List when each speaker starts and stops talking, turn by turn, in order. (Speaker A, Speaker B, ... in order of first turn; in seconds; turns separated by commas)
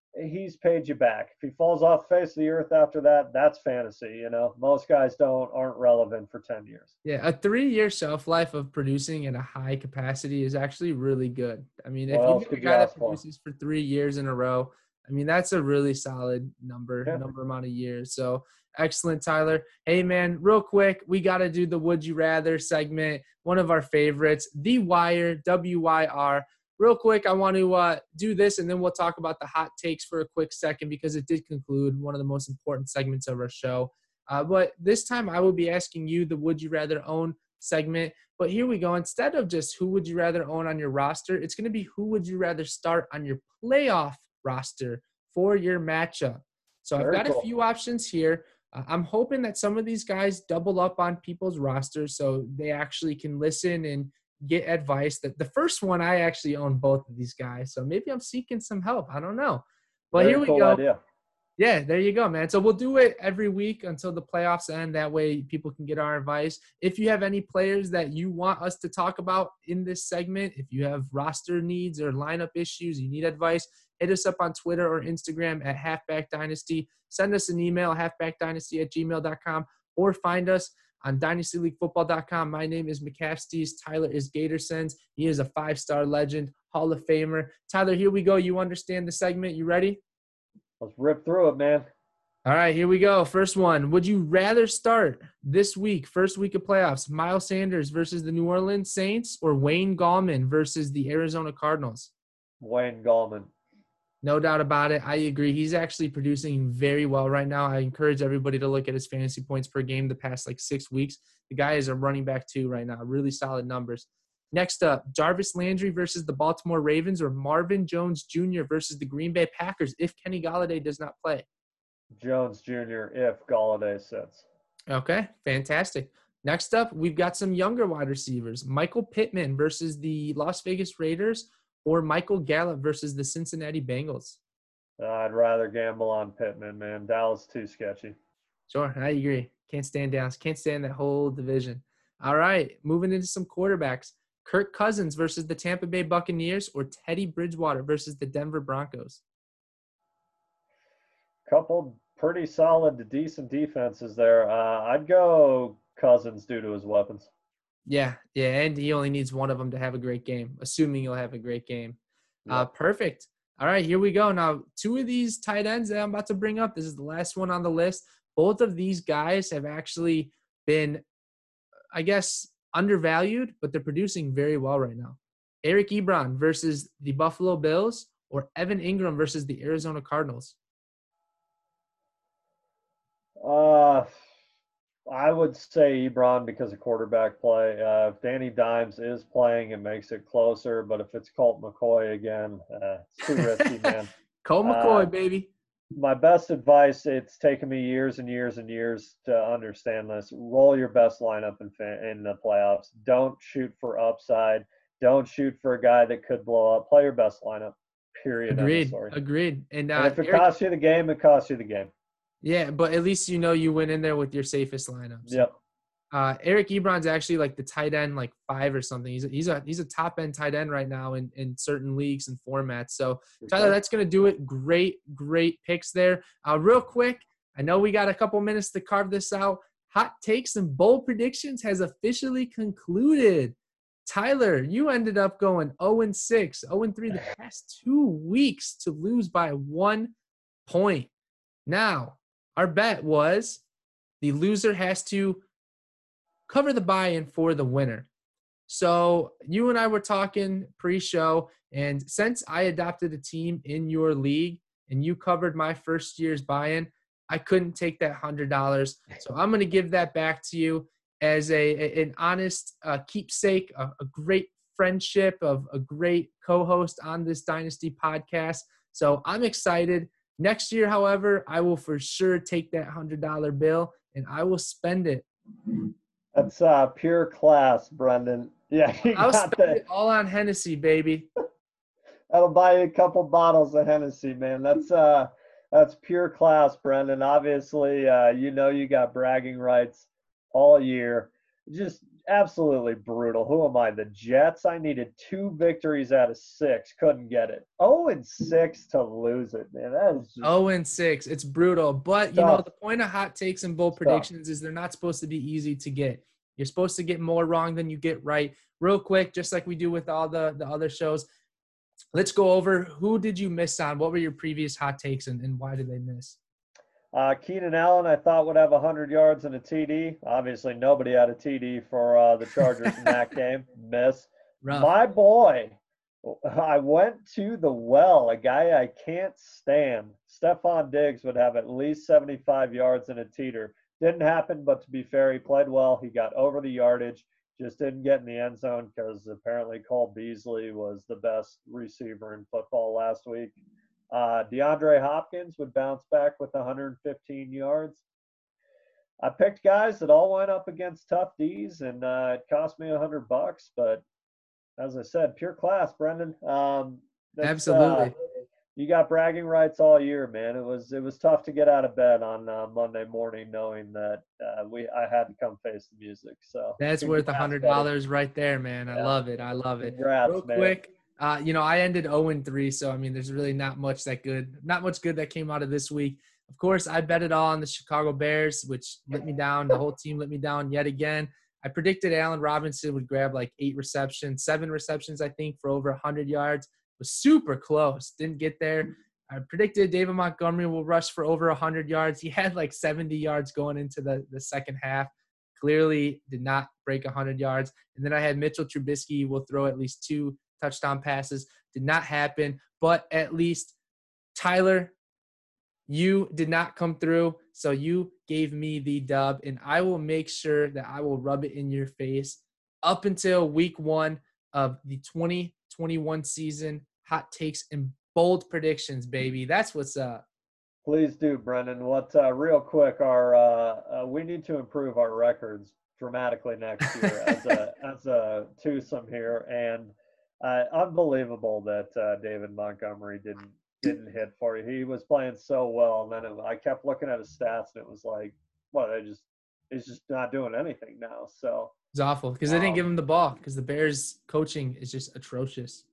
Speaker A: 0.1-6.9, Speaker B: 7.0-60.8, Speaker A: 12.1-13.2, Speaker A: 47.0-47.4, Speaker A: 60.1-61.0, Speaker B: 61.6-90.0, Speaker A: 90.8-91.8, Speaker B: 92.4-102.1, Speaker A: 102.6-103.5, Speaker B: 104.2-121.5, Speaker A: 122.2-124.5, Speaker B: 124.9-134.4, Speaker A: 135.0-138.2, Speaker B: 138.7-149.2, Speaker A: 151.4-157.3, Speaker B: 157.8-162.0, Speaker B: 162.5-171.0, Speaker B: 171.9-180.6, Speaker A: 183.4-184.1, Speaker A: 185.1-194.1, Speaker B: 193.3-193.9, Speaker B: 194.4-195.5, Speaker A: 194.6-195.1, Speaker A: 195.9-209.1, Speaker B: 208.5-210.4, Speaker A: 209.9-211.9, Speaker B: 212.4-215.5, Speaker A: 215.2-215.5, Speaker B: 216.1-240.1, Speaker A: 223.4-223.7, Speaker B: 240.7-241.1, Speaker B: 241.7-243.6, Speaker B: 244.2-245.4, Speaker B: 246.5-248.1, Speaker B: 248.7-275.2, Speaker A: 276.3-279.8, Speaker B: 279.1-281.3, Speaker A: 282.3-300.6, Speaker B: 300.4-311.2, Speaker A: 302.3-302.7, Speaker A: 304.0-304.3, Speaker B: 312.1-316.4, Speaker A: 317.1-343.6, Speaker B: 324.6-324.9, Speaker A: 344.1-348.0, Speaker A: 349.2-354.0, Speaker A: 354.8-358.1, Speaker B: 357.4-358.1, Speaker A: 358.7-367.9, Speaker B: 366.8-403.7, Speaker A: 369.8-370.8, Speaker B: 404.3-404.9, Speaker B: 405.9-420.2, Speaker A: 420.9-441.7, Speaker B: 441.9-445.8, Speaker A: 442.4-442.9